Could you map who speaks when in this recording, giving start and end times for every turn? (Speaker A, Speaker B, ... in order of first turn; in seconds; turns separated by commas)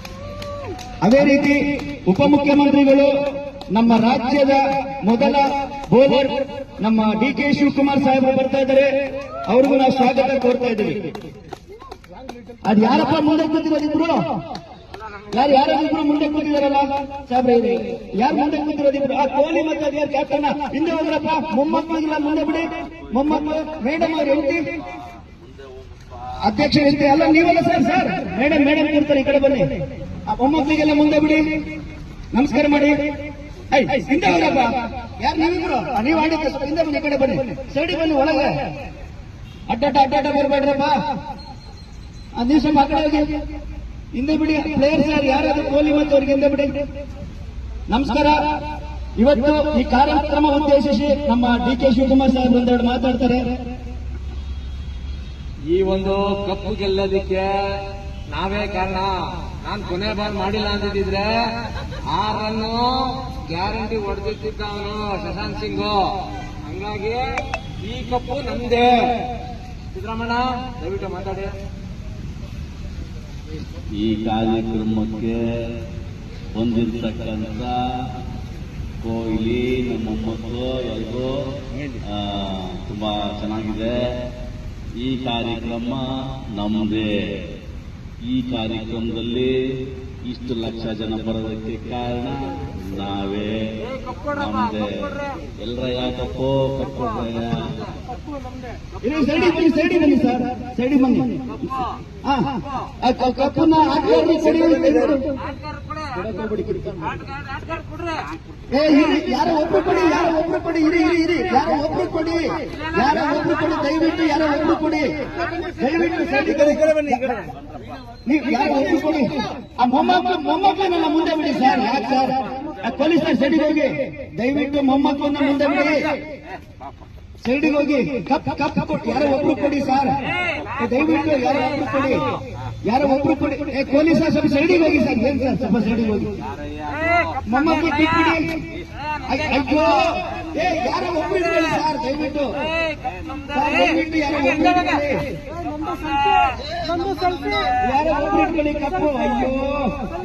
Speaker A: 1.0-3.1, Speaker A: 3.7-8.9, Speaker A: 9.5-11.0, Speaker A: 12.6-14.2, Speaker A: 15.3-24.7, Speaker A: 26.4-29.7, Speaker A: 30.3-31.4, Speaker A: 32.3-33.0, Speaker A: 33.7-38.5, Speaker A: 39.7-41.0, Speaker A: 42.4-43.3, Speaker A: 44.1-46.7, Speaker A: 47.9-48.4, Speaker A: 49.2-53.5, Speaker B: 55.7-69.2, Speaker B: 69.9-71.5, Speaker C: 74.0-75.8, Speaker C: 76.5-78.1, Speaker C: 79.0-81.5, Speaker C: 82.0-84.3, Speaker C: 85.0-87.5, Speaker C: 88.2-97.9, Speaker B: 93.9-94.4, Speaker A: 99.0-101.3, Speaker A: 103.0-105.2, Speaker B: 105.5-106.2, Speaker A: 106.2-106.9, Speaker B: 107.1-108.2, Speaker A: 108.7-115.1, Speaker A: 115.8-117.2, Speaker A: 118.2-126.1, Speaker A: 127.4-130.2, Speaker A: 130.8-132.2, Speaker A: 132.9-136.3, Speaker B: 136.8-137.4, Speaker A: 137.5-138.6, Speaker A: 139.3-142.5, Speaker B: 142.9-143.5, Speaker A: 143.5-145.3, Speaker B: 145.7-146.6, Speaker A: 147.6-149.9